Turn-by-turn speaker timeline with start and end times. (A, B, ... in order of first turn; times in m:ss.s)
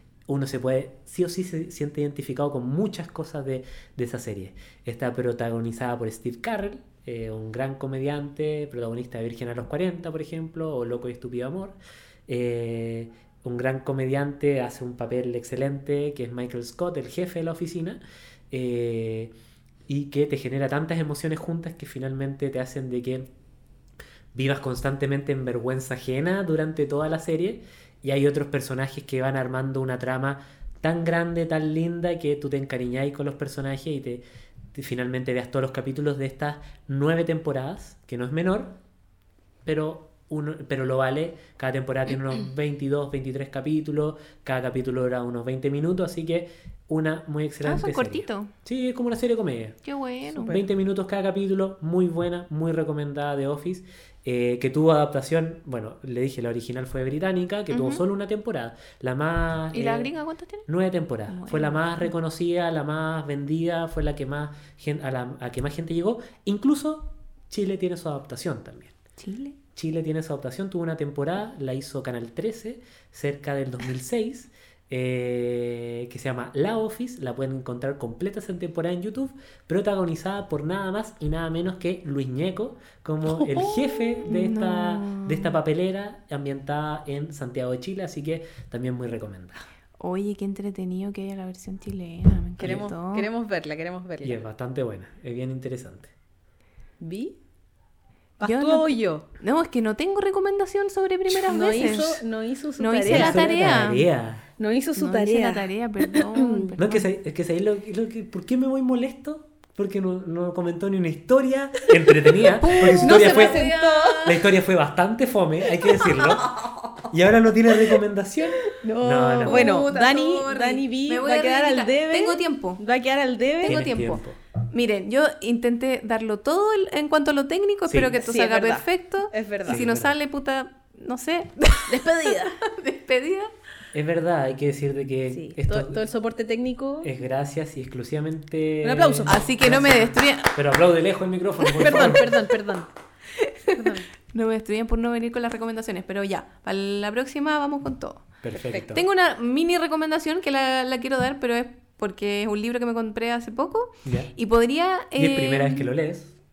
0:00.3-0:19.3 A
0:19.9-0:23.3 A
0:24.3-0:38.8 A
0:39.6-0:49.8 A
0:47.6-0:48.5 B
0:49.8-0:50.6 B
0:50.3-1:00.1 A
0:50.4-0:50.6 C
0:57.7-0:58.0 B
0:59.7-1:00.7 B
1:00.7-1:09.0 A
1:01.3-1:02.1 B
1:09.2-1:09.6 B
1:09.8-1:29.6 A
1:23.4-1:24.3 C
1:24.2-1:25.6 B
1:30.0-1:33.3 B
1:32.6-1:34.4 C
1:32.6-1:32.9 A
1:34.2-1:36.1 A
1:37.0-1:37.4 C
1:38.4-1:39.3 C
1:38.4-1:42.2 B
1:41.3-1:43.6 C
1:42.8-1:44.1 B
1:43.0-1:44.5 A
1:44.6-1:46.8 C
1:45.0-1:47.1 B
1:46.8-1:53.6 A
1:52.6-1:54.3 B
1:52.6-1:54.4 C
1:54.2-1:59.8 A
1:55.8-1:56.8 C
1:58.8-2:03.8 C
1:59.4-2:02.8 B
2:03.6-2:13.5 B
2:03.7-2:04.4 A
2:07.9-2:08.2 A
2:08.1-2:09.8 C
2:09.7-2:10.1 A
2:11.9-2:12.6 C
2:13.9-2:16.0 A
2:15.3-2:17.1 C
2:17.0-2:22.3 A
2:18.8-2:19.9 C
2:19.3-2:20.6 B
2:21.8-2:22.9 C
2:21.8-2:22.1 B
2:23.4-2:28.3 B
2:23.7-2:24.1 C
2:28.4-2:29.0 A
2:28.7-2:29.0 C
2:28.8-2:35.9 B
2:34.0-2:34.3 A
2:35.2-2:36.3 A